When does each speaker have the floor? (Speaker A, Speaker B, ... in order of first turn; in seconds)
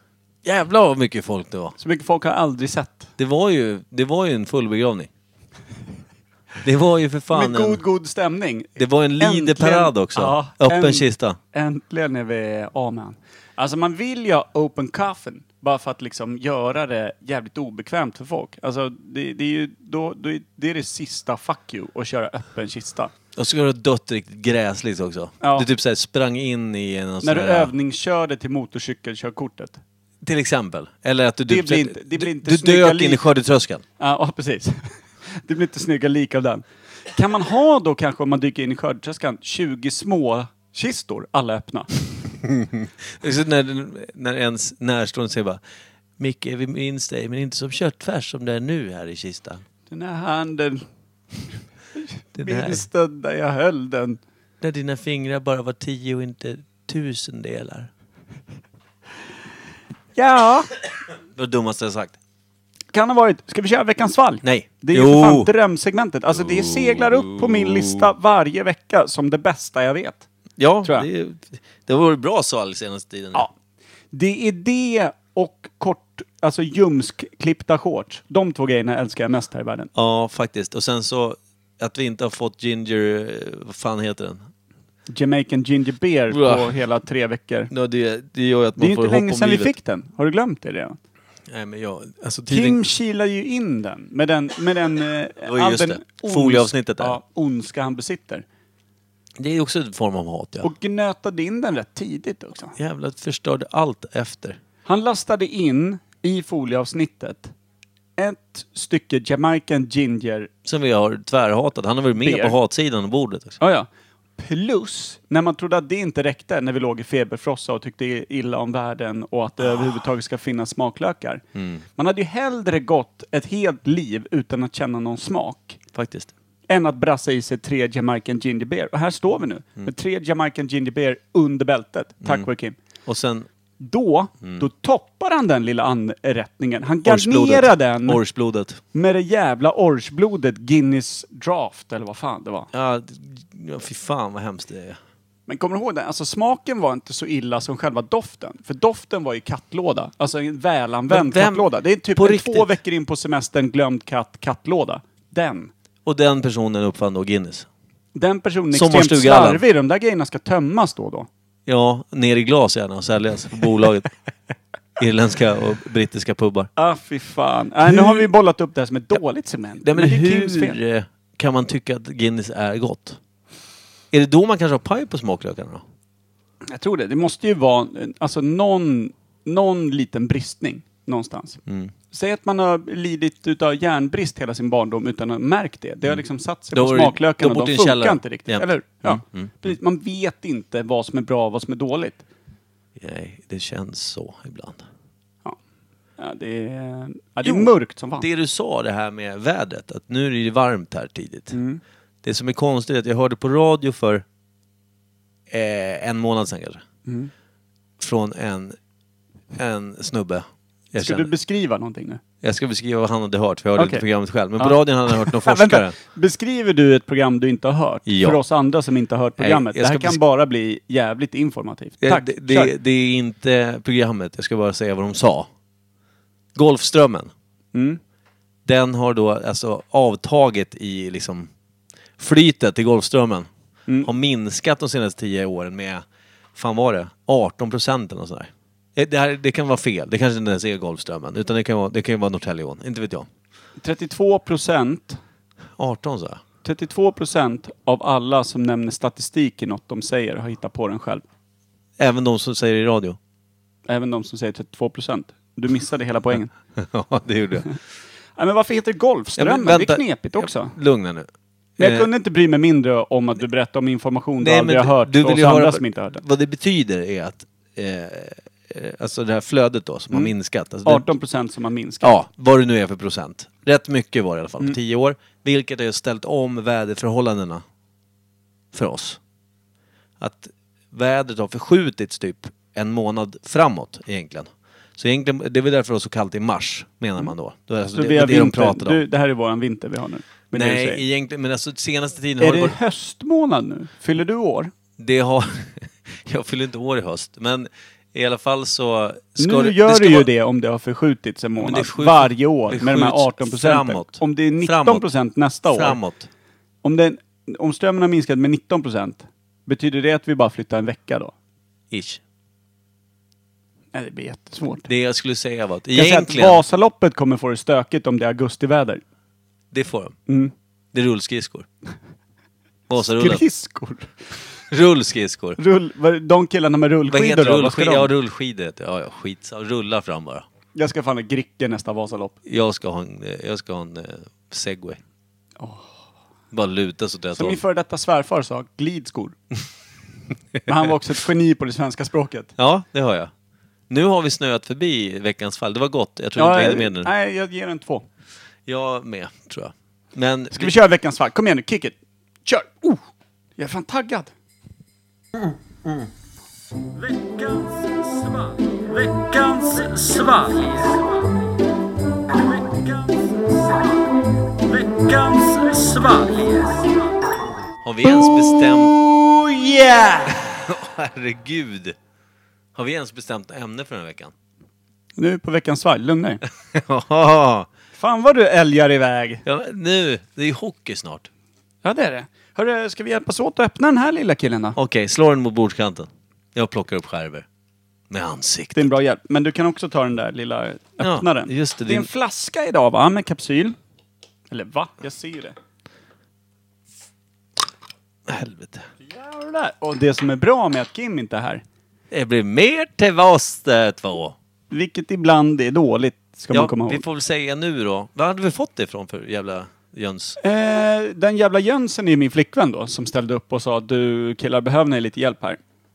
Speaker A: 0.4-1.8, 3.2-5.1, 6.6-7.8, 8.8-11.4, 23.4-27.7, 30.2-33.8, 42.5-45.6, 46.2-49.6, 52.4-52.8, 54.6-57.9, 61.3-62.1, 64.4-65.5, 66.3-68.1, 70.6-73.5, 79.9-84.5, 86.3-86.7, 87.7-89.7, 91.5-92.8, 95.4-97.2, 99.4-100.7, 102.8-104.6, 110.6-113.6, 121.5-121.8, 125.9-126.3, 133.1-133.5, 137.0-138.8, 142.7-145.0, 151.1-152.7, 156.0-157.7, 158.7-159.6, 161.7-164.1, 165.0-166.7, 167.9-168.2, 169.8-173.2, 174.1-175.8, 181.7-181.9, 186.7-189.7, 193.0-194.9, 197.4-201.6, 202.2-204.2, 205.5-206.8, 208.0-208.8, 209.5-211.3, 212.4-216.0, 218.1-218.4, 219.4-220.2, 222.0-225.5, 226.5-227.3, 228.7-231.5, 232.2-233.5, 234.0-236.0, 236.5-243.3, 245.8-246.4, 252.0-253.2, 256.8-257.7, 259.4-262.1, 264.4-271.1, 272.0-277.6, 278.7-279.2, 280.2-289.0, 290.5-292.8, 295.0-300.3, 301.6-305.0, 305.7-306.3, 311.9-312.2, 314.9-316.6, 319.7-320.1, 320.9-321.7, 322.9-323.4, 324.7-325.6, 327.1-330.4, 332.4-335.0, 336.5-337.6, 342.6-343.3, 343.9-347.1, 348.6-350.8, 367.8-368.9, 370.3-371.9, 372.7-374.3, 376.7-377.7, 379.4-381.3, 384.8-387.4, 388.1-388.9, 391.0-392.1, 398.3-398.9, 402.1-404.4, 406.5-410.4
Speaker B: 1.8-3.1, 7.3-23.1, 25.4-25.7, 27.2-29.8, 31.5-33.2, 34.0-41.9, 49.9-50.9, 51.9-54.2, 60.1-60.7, 62.9-70.2, 74.1-79.9, 85.1-87.7, 88.8-91.0, 92.5-98.4, 100.6-102.8, 104.8-107.5, 108.2-110.5, 112.2-112.5, 113.6-121.4, 122.0-125.8, 126.7-132.8, 133.8-138.2, 138.9-142.7, 145.5-155.7, 158.1-161.3, 166.8-170.8, 176.7-192.2, 196.2-198.2, 201.5-201.8, 207.1-207.3, 210.9-212.2, 213.8-214.0, 214.6-222.7, 227.7-228.0, 243.8-245.2, 246.6-251.2, 253.9-256.5, 258.4-260.8, 261.8-266.2, 270.8-272.1, 287.9-291.0, 292.4-294.7, 299.4-306.0, 306.8-311.3, 313.9-314.9, 315.9-319.0, 320.3-320.5, 322.9-324.1, 325.6-328.1, 330.7-332.4, 335.6-335.9, 337.3-339.4, 340.7-342.5, 346.4-348.1, 350.5-354.3, 356.9-361.1, 362.3-364.0, 364.6-367.1, 368.0-370.4, 375.1-376.4, 377.9-379.4, 381.8-384.8, 388.7-393.8, 394.5-395.6, 399.0-401.6, 404.7-407.0, 410.4-415.6